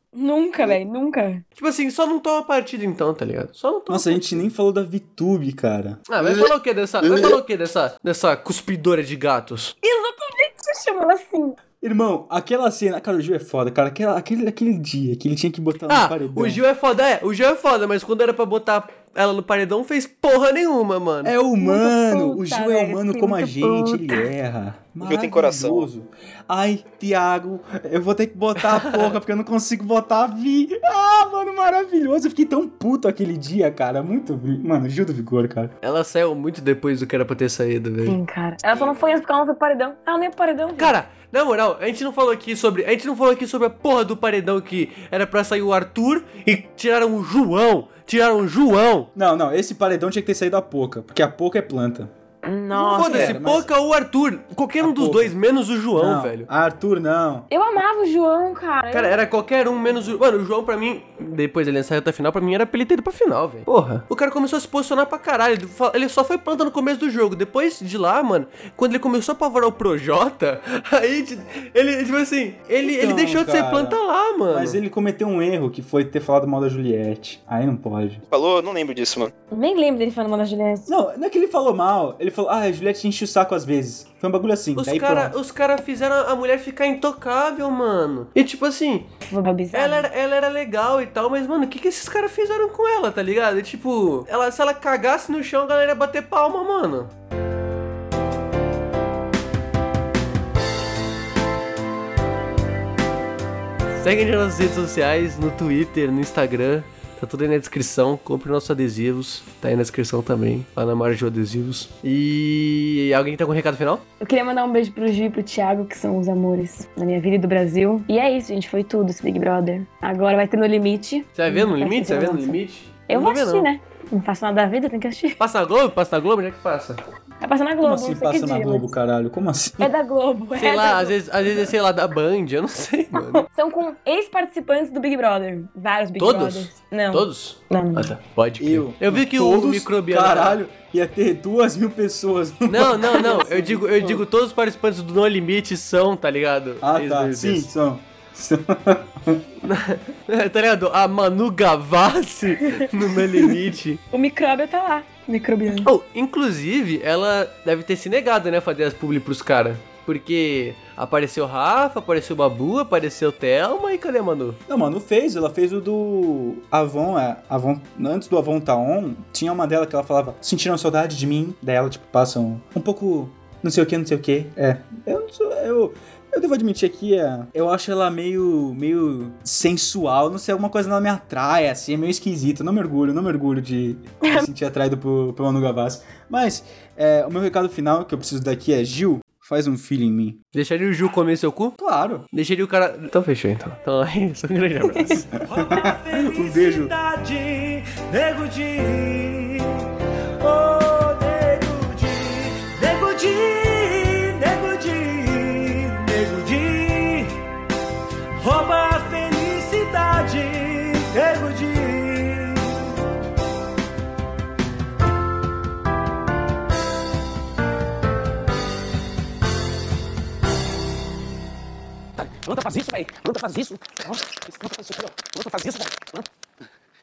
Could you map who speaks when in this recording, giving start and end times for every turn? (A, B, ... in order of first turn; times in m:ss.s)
0:00.1-0:01.4 A
0:01.6-0:04.4 B
0:03.9-0:06.5 C
0:06.1-0:09.7 B
0:07.0-0:07.3 D
0:09.8-0:11.6 A
0:11.8-0:16.6 C
0:15.9-0:21.3 B
0:21.2-0:35.7 C
0:21.6-0:24.2 A
0:25.0-0:25.9 D
0:28.6-0:29.1 B
0:35.8-0:38.2 B
0:38.0-0:41.0 A
0:38.7-0:39.2 D
0:40.8-0:49.1 B
0:49.1-0:52.1 C
0:52.4-0:53.3 A
0:52.7-0:56.5 B
0:52.9-0:53.7 C
0:54.8-0:55.3 C
0:55.9-0:57.5 C
0:57.5-0:59.2 A
0:58.9-1:14.8 B
1:12.8-1:14.0 C
1:14.5-1:18.2 C
1:18.3-1:19.3 D
1:19.5-1:20.9 A
1:20.8-1:25.3 C
1:24.8-1:29.1 B
1:29.2-1:30.1 A
1:29.7-1:37.1 B
1:44.0-1:54.0 B
1:54.2-2:05.4 A
2:01.3-2:03.7 B
2:05.4-2:07.0 B
2:07.4-2:08.9 A
2:07.8-2:09.9 C
2:09.8-2:11.2 A
2:10.6-2:13.4 B
2:13.2-2:18.1 A
2:16.2-2:20.6 B
2:18.6-2:23.5 C
2:22.7-2:27.7 B
2:23.2-2:24.2 A
2:26.8-2:29.4 C
2:29.6-2:34.0 B
2:32.8-2:33.5 A
2:34.1-2:35.9 A
2:35.7-2:44.6 B
2:44.7-3:10.4 C
3:04.2-3:04.5 A
3:10.5-3:11.7 B
3:11.8-3:12.3 C
3:12.3-3:15.3 B
3:15.4-3:19.8 E
3:15.5-3:16.9 C
3:20.4-3:27.4 E
3:28.4-3:32.8 E
3:42.7-3:43.7 F
3:44.7-3:45.9 F